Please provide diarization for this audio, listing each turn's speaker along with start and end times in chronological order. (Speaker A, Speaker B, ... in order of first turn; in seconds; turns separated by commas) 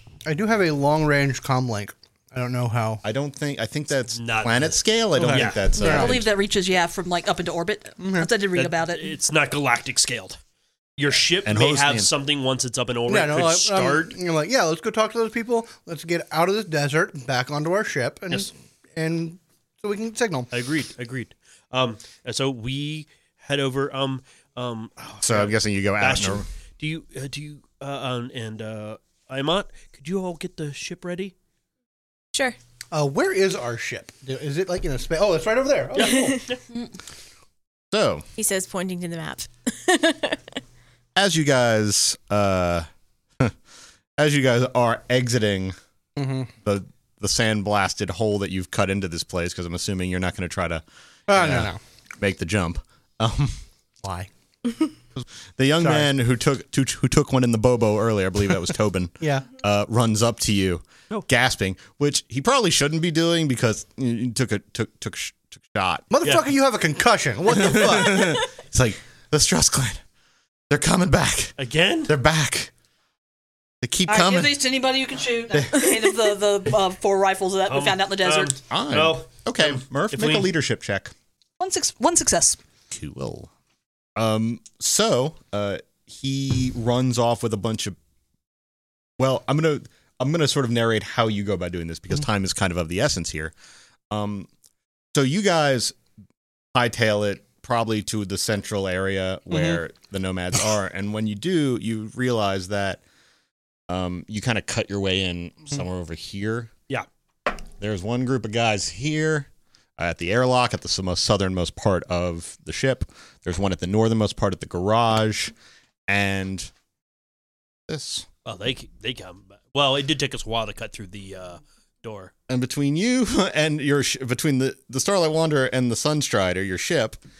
Speaker A: 0.2-3.0, Speaker B: 3.0-6.3, Speaker C: 4.1-5.7, Speaker A: 5.2-6.2, Speaker D: 5.8-9.2, Speaker A: 8.0-8.3, Speaker C: 8.5-10.4, Speaker C: 11.0-14.1, Speaker B: 11.4-12.1, Speaker A: 13.1-20.5, Speaker C: 20.5-31.3, Speaker B: 25.2-26.4, Speaker A: 32.9-36.3, Speaker C: 35.9-36.6, Speaker E: 36.0-36.4, Speaker D: 36.7-36.9, Speaker B: 37.9-38.3, Speaker E: 38.4-40.4, Speaker B: 41.1-42.9, Speaker B: 44.2-45.8, Speaker A: 46.2-46.5, Speaker B: 46.6-53.6, Speaker A: 51.3-51.8, Speaker A: 54.0-54.3, Speaker B: 55.1-66.0, Speaker A: 55.8-56.1, Speaker A: 59.2-59.5, Speaker A: 66.1-68.4, Speaker B: 67.5-70.0, Speaker B: 70.7-71.5, Speaker C: 71.6-72.1, Speaker B: 72.1-72.7, Speaker B: 73.8-74.6, Speaker D: 74.1-78.5, Speaker B: 75.5-75.8, Speaker C: 77.7-80.5, Speaker B: 78.7-81.1, Speaker D: 81.6-82.6, Speaker B: 82.9-83.5, Speaker B: 84.2-88.0, Speaker B: 89.2-93.5, Speaker B: 94.1-94.5, Speaker B: 95.1-96.0, Speaker B: 96.7-103.0, Speaker A: 99.5-99.8, Speaker B: 103.9-106.7, Speaker B: 107.8-115.5, Speaker B: 116.1-116.7, Speaker B: 117.9-118.2, Speaker C: 118.4-122.3, Speaker B: 122.5-127.2